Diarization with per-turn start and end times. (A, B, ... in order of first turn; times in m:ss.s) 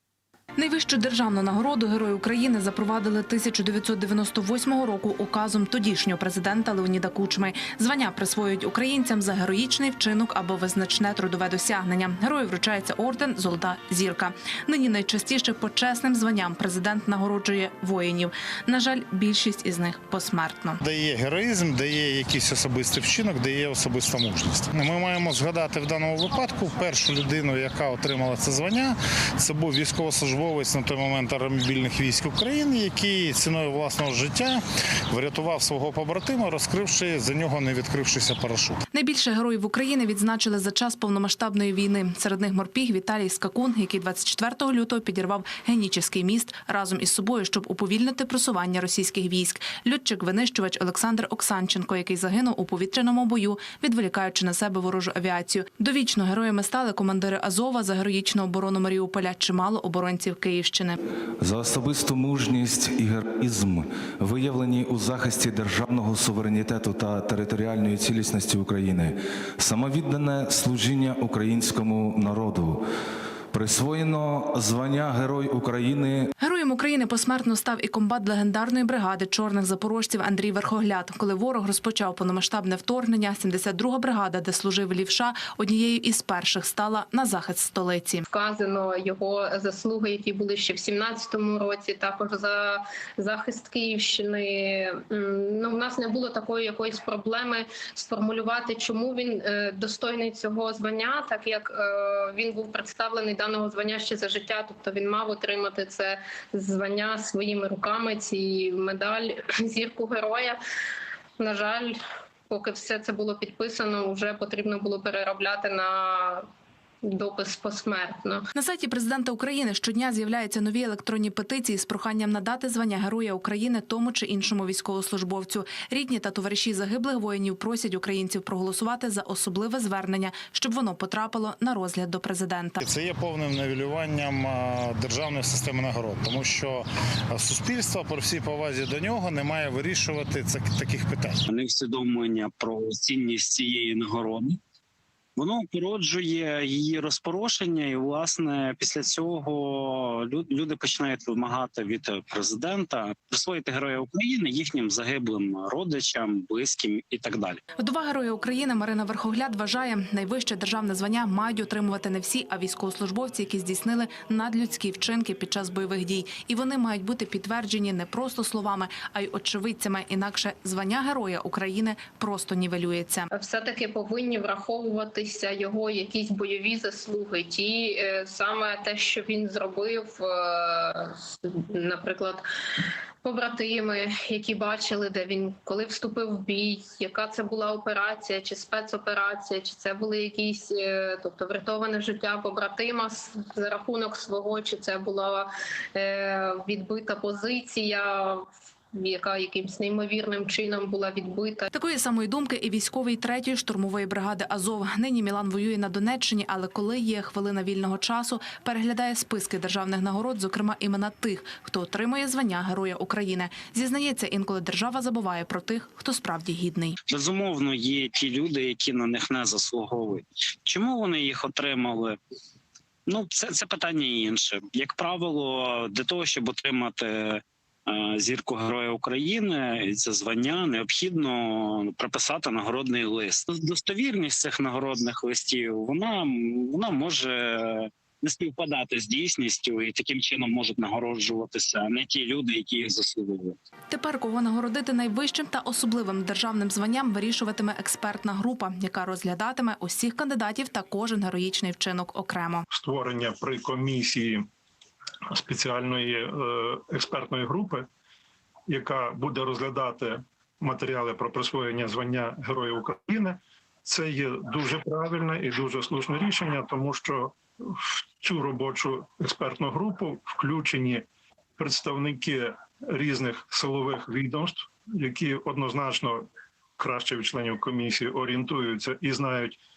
0:00.6-0:20.8 A
0:20.8-0:38.8 B
0:38.9-1:01.0 A
1:01.4-1:12.8 C
1:13.5-1:16.3 C
1:16.4-1:28.2 A
1:28.3-1:50.6 D
1:51.4-1:52.0 D
1:52.5-1:56.4 D
1:57.0-1:58.4 D
1:58.5-2:12.8 A
2:12.8-2:21.4 B
2:21.5-2:24.6 E
2:25.4-2:37.6 E
2:37.8-2:53.3 A
2:53.3-3:02.4 D
3:03.2-3:21.7 D
3:21.7-3:37.0 A
3:37.1-3:42.2 E
3:43.1-4:03.5 E
4:03.9-4:12.6 A
4:12.7-4:14.4 F
4:15.3-4:17.8 F
4:18.7-4:27.3 F
4:28.2-4:31.0 F
4:31.6-4:36.2 F
4:36.8-4:39.6 F